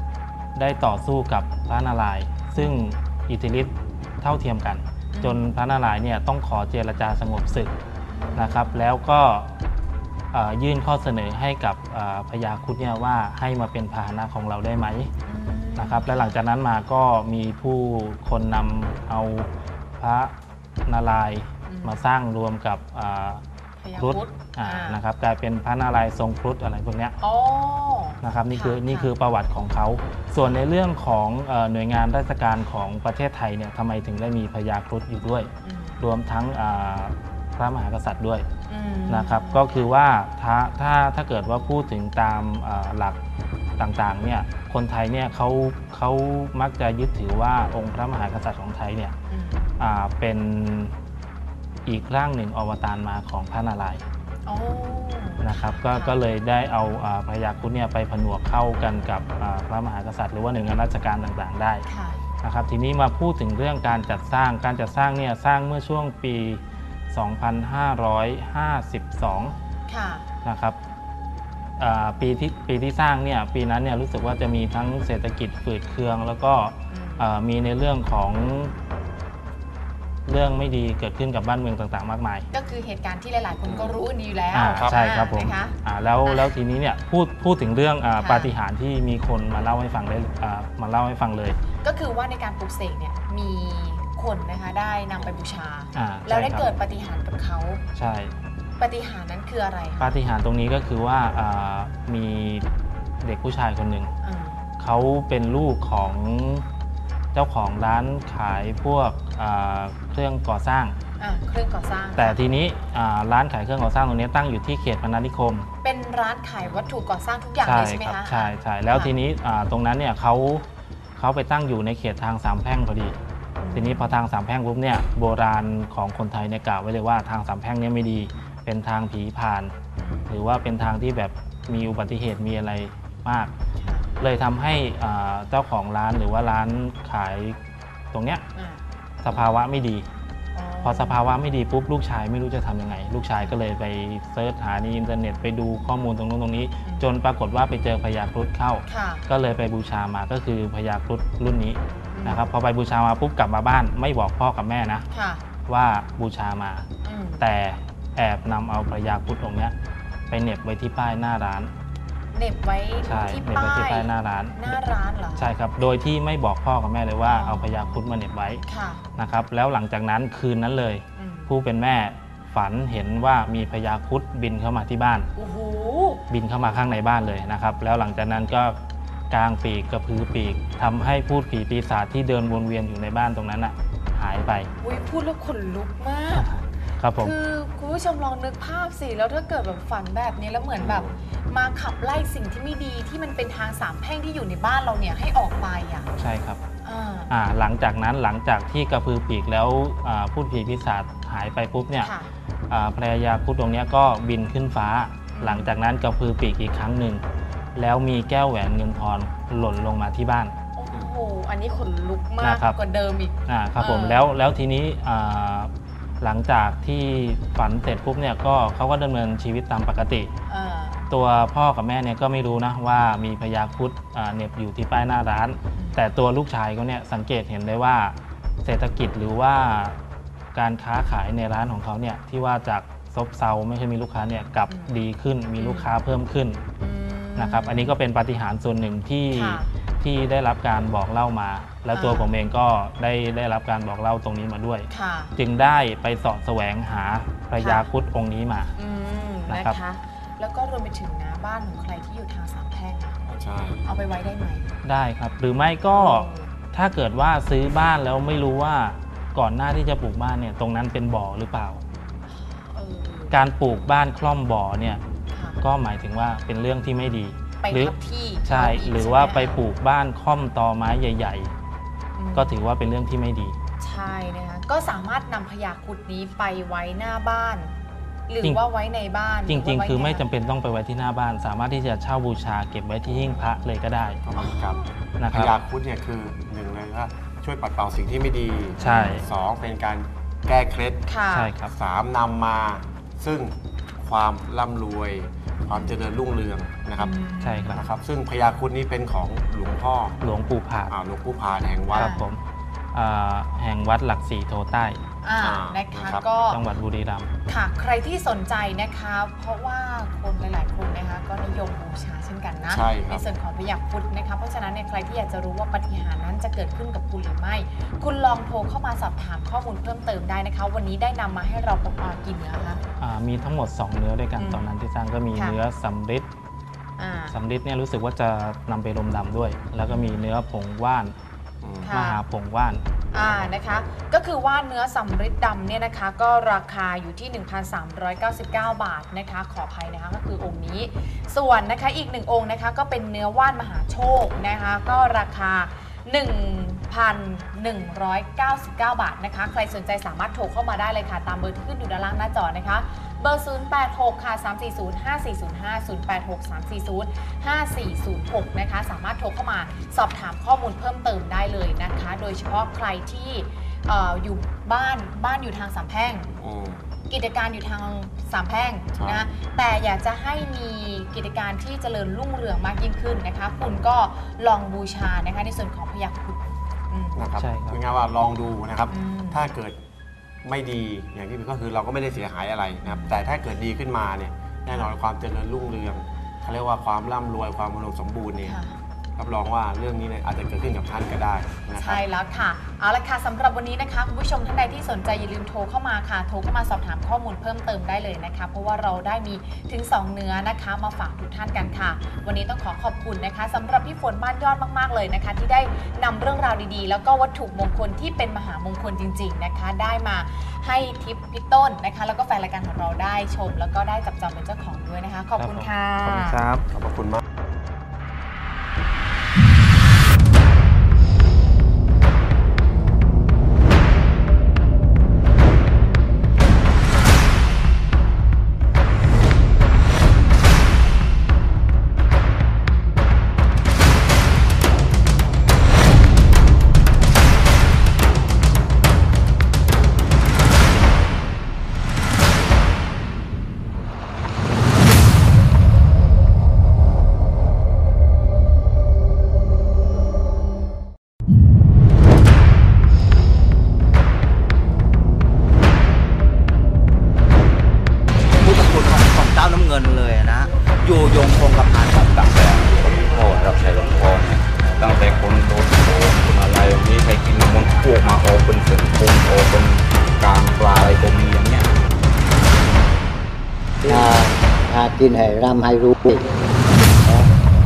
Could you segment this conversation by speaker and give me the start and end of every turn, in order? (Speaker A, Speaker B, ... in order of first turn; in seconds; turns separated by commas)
Speaker A: 0.5-7.7, Speaker B: 5.1-5.5, Speaker B: 8.1-8.8, Speaker A: 8.3-9.5, Speaker A: 10.3-15.1, Speaker B: 15.3-16.4, Speaker A: 15.8-20.3, Speaker A: 20.9-23.4, Speaker B: 21.7-22.1, Speaker B: 23.8-25.0, Speaker A: 24.0-27.2, Speaker B: 27.2-29.1, Speaker A: 28.2-38.5, Speaker B: 35.6-36.0, Speaker B: 38.7-39.9, Speaker A: 39.1-43.2, Speaker A: 43.8-49.1, Speaker B: 49.3-49.7, Speaker A: 49.8-50.9, Speaker A: 51.9-54.0, Speaker B: 54.5-56.2, Speaker A: 55.4-61.8, Speaker B: 61.9-62.2, Speaker A: 62.4-69.5, Speaker B: 69.9-70.2, Speaker A: 70.4-70.8, Speaker A: 71.8-78.7, Speaker B: 76.9-77.3, Speaker A: 80.2-82.5, Speaker B: 82.5-86.5, Speaker C: 83.6-84.0, Speaker A: 84.5-91.6, Speaker B: 88.2-88.5, Speaker B: 91.8-97.8, Speaker C: 95.2-95.5, Speaker A: 95.9-96.7, Speaker A: 97.9-98.3, Speaker B: 98.8-100.2, Speaker A: 100.0-102.6, Speaker A: 103.2-104.1, Speaker B: 104.2-104.6, Speaker A: 104.8-106.7, Speaker A: 107.3-111.0, Speaker B: 111.2-112.4, Speaker A: 112.2-115.7, Speaker B: 115.8-119.1, Speaker A: 117.6-120.7, Speaker A: 121.2-123.2, Speaker B: 123.6-124.2, Speaker A: 123.7-129.7, Speaker B: 129.9-130.3, Speaker A: 130.3-133.5, Speaker B: 133.8-134.1, Speaker A: 134.2-137.6, Speaker A: 138.1-138.4, Speaker B: 138.5-139.5, Speaker A: 139.2-140.1, Speaker B: 140.5-141.2, Speaker A: 140.8-155.1, Speaker B: 148.9-149.2, Speaker B: 152.1-152.5, Speaker B: 155.1-155.4, Speaker A: 155.7-156.9, Speaker B: 157.0-157.4, Speaker A: 157.4-159.8, Speaker A: 160.3-161.7, Speaker B: 162.3-165.5, Speaker A: 163.0-164.8, Speaker A: 165.4-168.6, Speaker B: 167.2-169.0, Speaker A: 169.1-175.3, Speaker B: 171.2-171.5, Speaker B: 175.3-176.2, Speaker A: 176.3-178.8, Speaker A: 179.3-184.7, Speaker B: 184.8-186.5, Speaker A: 186.3-187.3, Speaker B: 187.2-196.1, Speaker C: 190.8-191.2, Speaker A: 196.2-196.6, Speaker B: 196.8-197.3, Speaker A: 197.3-202.1, Speaker B: 202.0-202.3, Speaker A: 202.7-207.2, Speaker B: 205.3-205.8, Speaker A: 207.8-210.5, Speaker B: 210.8-214.2, Speaker A: 212.4-212.8, Speaker A: 213.5-220.3, Speaker B: 220.5-221.1, Speaker A: 221.1-230.0, Speaker B: 225.8-226.0, Speaker A: 230.5-236.6, Speaker B: 234.7-235.0, Speaker B: 235.6-235.9, Speaker B: 236.8-237.9, Speaker A: 237.4-248.7, Speaker B: 239.3-239.7, Speaker B: 241.9-242.3, Speaker B: 244.9-245.3, Speaker B: 247.6-247.9, Speaker B: 248.8-253.2, Speaker A: 249.5-249.8, Speaker C: 253.2-253.8, Speaker B: 253.8-254.8, Speaker A: 254.8-261.8, Speaker B: 255.9-256.5, Speaker B: 262.3-263.4, Speaker A: 263.3-265.0, Speaker B: 265.3-265.6, Speaker A: 265.6-271.5, Speaker B: 267.6-269.6, Speaker B: 272.1-272.6, Speaker A: 272.3-273.6, Speaker B: 273.8-277.7, Speaker B: 278.3-280.2, Speaker A: 279.5-284.2, Speaker C: 283.1-283.6, Speaker C: 284.2-291.1, Speaker B: 284.4-284.9, Speaker A: 285.2-285.6, Speaker A: 288.8-289.2, Speaker B: 288.8-289.2, Speaker B: 291.1-291.5, Speaker A: 291.3-291.7, Speaker C: 291.7-297.1, Speaker B: 295.7-296.0, Speaker B: 297.0-297.8, Speaker A: 297.4-297.8, Speaker C: 297.7-300.2, Speaker A: 300.2-300.9, Speaker C: 300.9-302.1, Speaker B: 301.9-302.2, Speaker A: 301.9-302.4, Speaker A: 302.9-305.0, Speaker B: 305.2-306.6, Speaker C: 305.4-306.3, Speaker A: 306.5-307.3, Speaker B: 307.5-322.8, Speaker C: 312.7-313.2, Speaker A: 323.0-326.3, Speaker B: 324.4-324.8, Speaker B: 327.0-327.4, Speaker A: 327.3-331.1, Speaker B: 329.8-330.2, Speaker C: 331.6-331.9, Speaker B: 331.8-332.2, Speaker A: 331.9-333.6, Speaker B: 333.1-366.3, Speaker C: 366.4-366.9, Speaker B: 367.1-377.3, Speaker C: 369.0-369.3, Speaker C: 377.1-379.8, Speaker A: 377.4-377.8, Speaker B: 378.9-379.5, Speaker C: 380.4-388.6, Speaker B: 382.8-383.2, Speaker B: 388.4-388.8, Speaker C: 389.2-392.0, Speaker B: 391.8-416.4, Speaker A: 415.4-416.7, Speaker C: 416.7-417.2, Speaker D: 458.4-462.2, Speaker E: 462.0-471.7, Speaker F: 473.8-476.2, Speaker F: 477.0-477.3